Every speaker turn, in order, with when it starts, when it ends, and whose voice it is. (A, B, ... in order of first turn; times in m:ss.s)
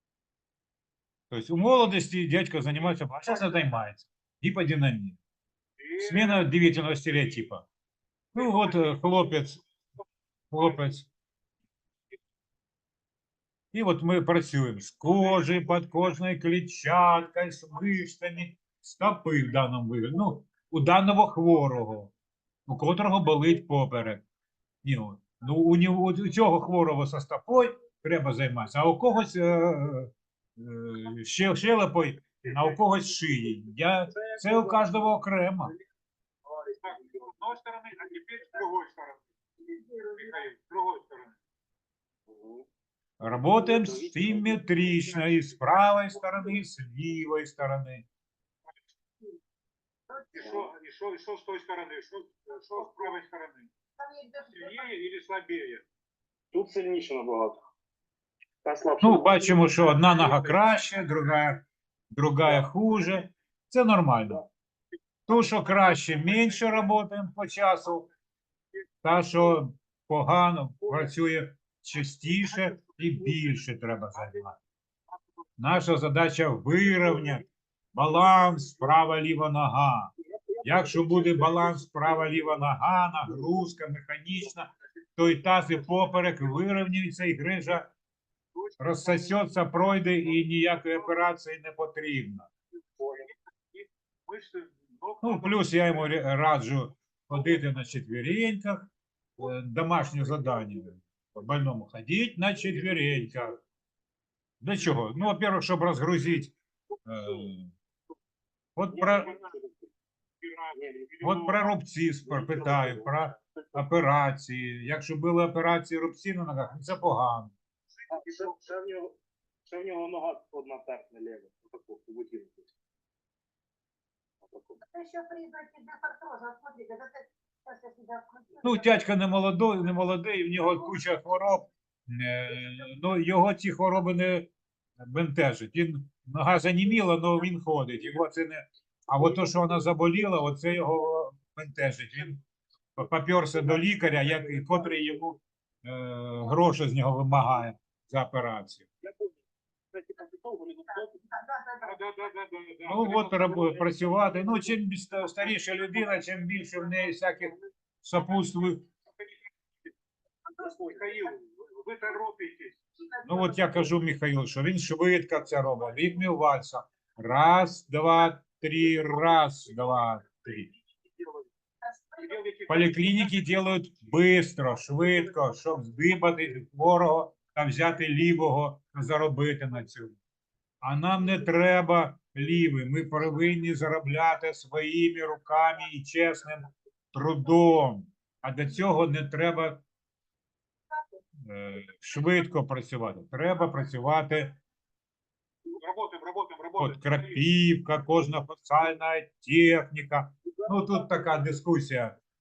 0:01.3-0:05.2 A
0:05.8-0:06.5 B
0:06.0-0:07.6 A
0:08.3-0:09.6 A
0:08.4-0:09.3 B
0:10.5-0:11.1 A
0:13.7-0:22.1 A
0:15.2-0:15.9 B
0:22.7-0:24.2 A
0:24.8-0:35.7 A
0:34.1-0:34.9 C
0:36.4-0:37.3 C
0:36.8-0:39.2 B
0:40.2-0:41.4 B
0:42.3-0:42.6 C
0:43.2-0:48.0 A
0:43.5-0:45.5 C
0:50.3-0:53.7 B
0:50.4-0:50.7 C
0:54.5-0:55.8 B
0:56.5-0:57.6 C
0:58.6-0:59.7 C
0:59.0-1:01.6 A
0:59.9-1:00.5 B
1:02.1-1:04.4 A
1:05.3-1:08.1 A
1:05.3-1:06.9 B
1:09.0-1:14.6 A
1:12.3-1:13.2 B
1:14.1-1:14.4 B
1:15.6-1:17.4 A
1:17.9-1:20.1 A
1:20.3-1:21.5 C
1:20.6-1:27.9 A
1:28.6-1:29.6 B
1:28.8-1:32.5 A
1:30.2-1:31.2 B
1:33.0-1:33.3 C
1:33.7-1:36.1 B
1:35.2-1:43.6 A
1:44.6-1:46.5 A
1:47.1-1:47.7 A
1:48.8-1:49.3 A
1:48.9-1:49.9 C
1:50.4-1:51.6 B
1:50.7-1:51.4 C
1:51.2-1:57.5 A
1:52.3-1:53.6 C
1:58.1-1:59.1 C
1:58.2-1:58.6 B
1:59.6-2:02.7 C
2:04.4-2:04.8 C
2:05.0-2:07.2 D
2:08.6-2:14.5 A
2:15.1-2:22.4 A
2:23.0-2:28.8 A
2:29.0-2:29.4 C
2:29.9-2:31.9 C
2:31.8-2:33.7 B
2:32.8-2:38.8 A
2:34.2-2:34.7 C
2:38.2-2:38.6 B
2:40.6-2:41.3 C
2:40.7-2:42.8 B
2:43.2-2:50.7 A
2:52.2-2:53.5 B
2:52.7-3:00.2 A
3:00.8-3:09.8 A
3:11.4-3:14.6 A
3:15.7-3:17.4 B
3:16.8-3:22.2 A